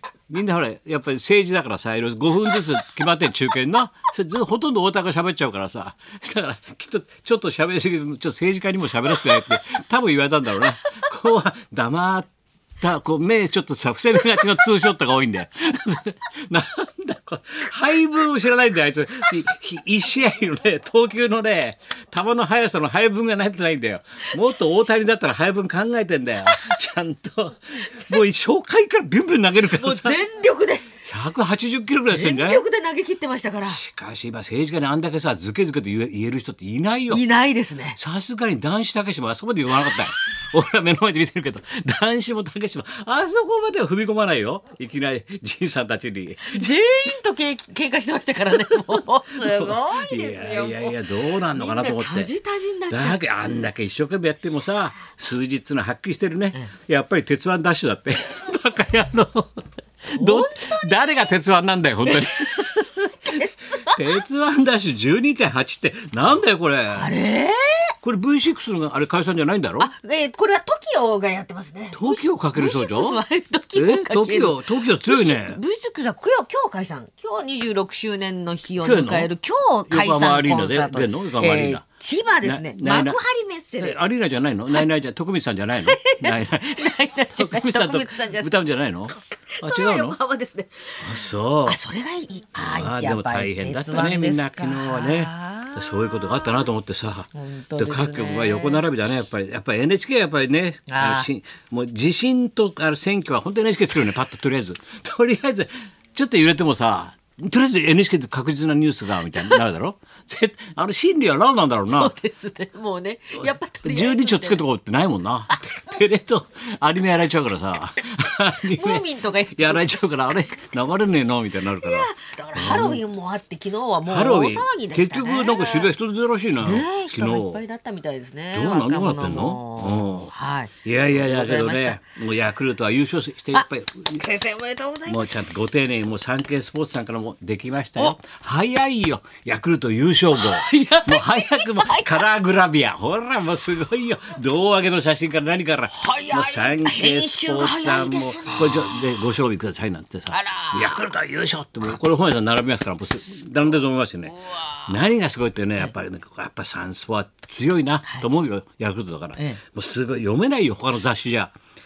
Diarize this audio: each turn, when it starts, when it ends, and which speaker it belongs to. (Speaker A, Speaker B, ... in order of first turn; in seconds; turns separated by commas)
Speaker A: 0.3-12.3, Speaker A: 12.8-30.2, Speaker B: 29.8-30.9, Speaker A: 31.0-32.6, Speaker B: 32.1-33.8, Speaker A: 33.7-37.2, Speaker B: 37.1-38.0, Speaker A: 38.0-46.7, Speaker B: 46.5-51.0, Speaker A: 49.4-52.3, Speaker B: 51.5-53.2, Speaker A: 52.9-67.1, Speaker B: 60.1-61.3, Speaker B: 62.1-62.6, Speaker B: 63.2-64.1, Speaker B: 66.9-67.9, Speaker A: 68.0-69.9, Speaker B: 69.8-84.0, Speaker A: 71.9-73.2, Speaker A: 73.8-75.6, Speaker A: 78.8-79.3, Speaker A: 79.9-81.8, Speaker A: 82.4-83.2, Speaker A: 83.8-90.2, Speaker B: 85.9-88.5, Speaker B: 89.6-96.3, Speaker A: 91.0-91.8, Speaker A: 92.6-112.1, Speaker B: 97.3-98.8, Speaker B: 100.9-101.3, Speaker B: 111.9-114.6, Speaker A: 113.4-123.0, Speaker B: 118.6-120.0, Speaker B: 121.8-125.9, Speaker A: 124.1-127.6, Speaker B: 126.6-132.0, Speaker A: 128.5-130.3, Speaker A: 130.8-134.2, Speaker B: 133.5-135.6, Speaker A: 135.1-161.5, Speaker B: 140.3-142.3, Speaker B: 145.9-149.1, Speaker B: 150.3-151.0